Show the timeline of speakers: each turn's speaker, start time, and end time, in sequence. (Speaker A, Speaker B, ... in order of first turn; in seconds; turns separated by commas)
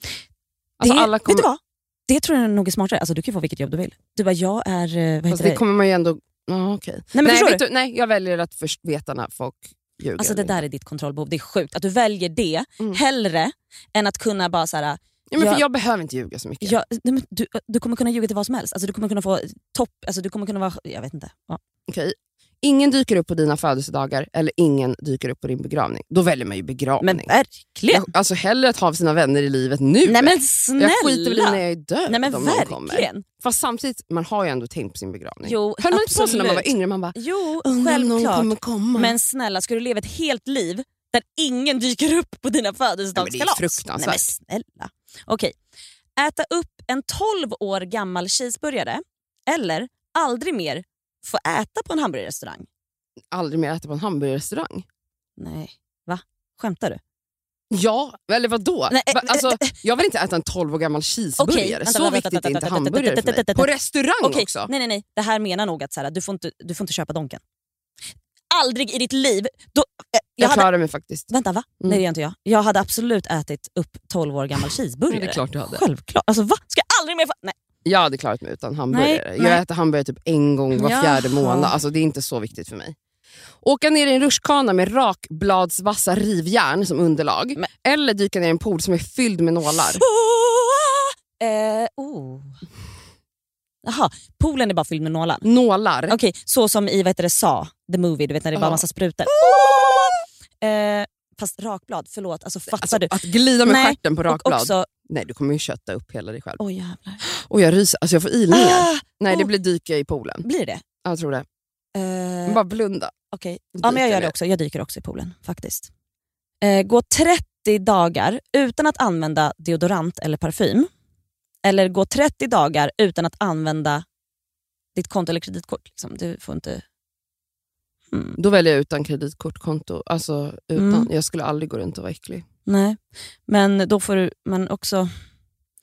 Speaker A: 0.8-1.5, Speaker B: 0.8-5.6, Speaker A: 5.3-10.6, Speaker B: 7.1-7.6, Speaker B: 10.2-15.6, Speaker A: 15.3-16.8, Speaker B: 16.6-21.6, Speaker A: 21.9-27.3, Speaker B: 27.0-28.1, Speaker A: 27.9-39.1, Speaker B: 30.0-33.2, Speaker B: 35.4-45.5, Speaker A: 43.1-44.3, Speaker B: 46.1-52.7, Speaker A: 53.3-54.8, Speaker B: 55.4-57.0, Speaker A: 57.7-64.7, Speaker B: 58.9-59.7, Speaker B: 61.4-63.7, Speaker B: 64.2-67.4, Speaker B: 68.5-70.7, Speaker A: 70.4-71.3, Speaker B: 71.3-77.5, Speaker A: 75.1-75.8, Speaker A: 77.8-82.9, Speaker B: 78.9-79.6, Speaker B: 80.7-81.8, Speaker A: 83.6-90.0, Speaker B: 89.8-92.6, Speaker B: 93.8-95.4, Speaker A: 95.4-96.2, Speaker B: 96.1-104.9, Speaker A: 98.5-98.8, Speaker A: 99.4-100.2, Speaker A: 102.7-106.6, Speaker B: 106.6-107.2, Speaker A: 107.2-110.4, Speaker B: 108.5-109.5, Speaker B: 110.4-110.8, Speaker A: 111.0-111.4, Speaker B: 111.9-112.6, Speaker A: 112.5-113.1, Speaker B: 113.3-115.9, Speaker A: 113.8-114.3, Speaker B: 116.6-120.9, Speaker B: 121.6-124.0, Speaker B: 124.9-126.8, Speaker B: 128.1-128.4, Speaker A: 128.3-132.4, Speaker B: 130.7-131.1, Speaker B: 132.7-135.1